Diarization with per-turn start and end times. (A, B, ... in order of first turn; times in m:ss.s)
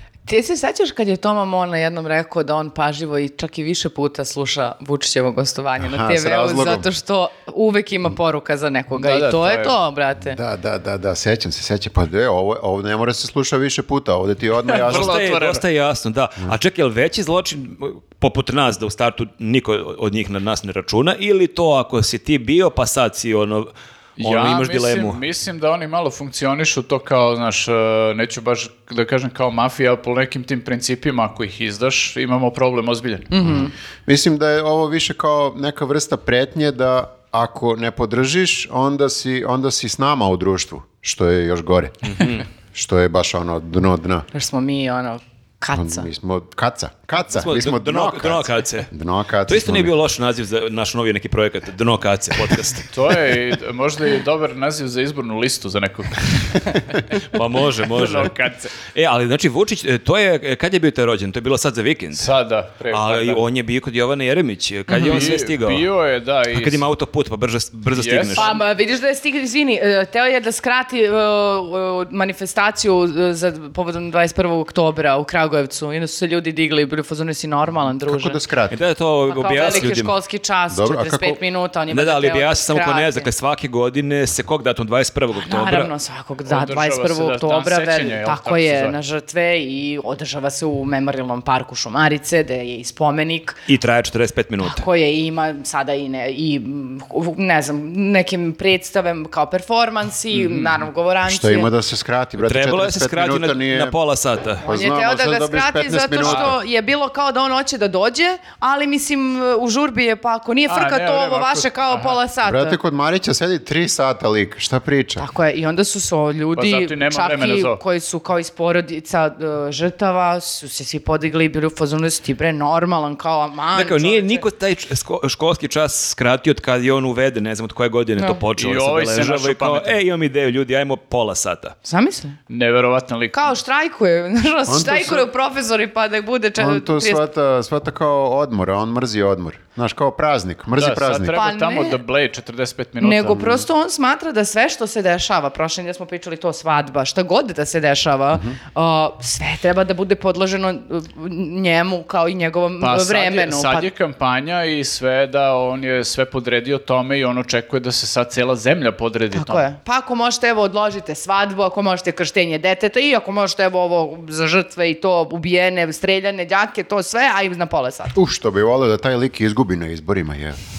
0:00.3-0:10.4 A
0:05.8-0:06.9 B
0:08.9-0:09.8 C
0:10.3-0:15.2 B
0:14.7-0:15.6 C
0:14.8-0:25.2 D
0:24.2-0:33.3 C
0:33.3-0:33.7 A
0:33.4-0:44.3 B
0:42.1-0:42.4 D
0:44.3-0:46.1 A
0:45.7-0:49.9 B
0:47.3-0:48.9 D
0:49.5-0:52.9 D
0:52.9-0:56.9 C
0:57.2-1:02.3 D
0:57.8-0:58.8 C
1:02.2-1:03.4 C
1:02.9-1:05.9 D
1:04.9-1:05.3 A
1:05.0-1:06.8 C
1:06.5-1:08.6 D
1:07.9-1:08.6 C
1:08.4-1:18.4 A
1:18.1-1:18.8 B
1:18.7-1:20.1 D
1:19.3-1:23.3 A
1:20.7-1:21.4 B
1:21.9-1:25.9 D
1:25.4-1:33.6 A
1:26.5-1:29.0 C
1:33.7-1:34.8 D
1:34.6-1:41.7 A
1:40.3-1:40.8 C
1:41.3-1:44.0 B
1:42.4-1:44.7 D
1:44.6-1:46.6 B
1:44.7-1:52.8 A
1:46.2-1:46.5 C
1:50.7-1:52.2 C
1:52.4-1:55.2 B
1:55.2-2:04.4 A
1:56.6-1:57.8 C
2:03.7-2:11.8 D
2:08.6-2:10.0 C
2:11.8-2:12.4 A
2:12.5-2:13.5 C
2:13.3-2:17.2 A
2:14.7-2:15.3 B
2:16.6-2:21.4 B
2:20.8-2:23.4 C
2:21.3-2:22.0 A
2:23.0-2:33.9 A
2:23.3-2:23.6 B
2:32.8-2:39.7 C
2:39.3-2:48.2 A
2:48.2-2:50.6 B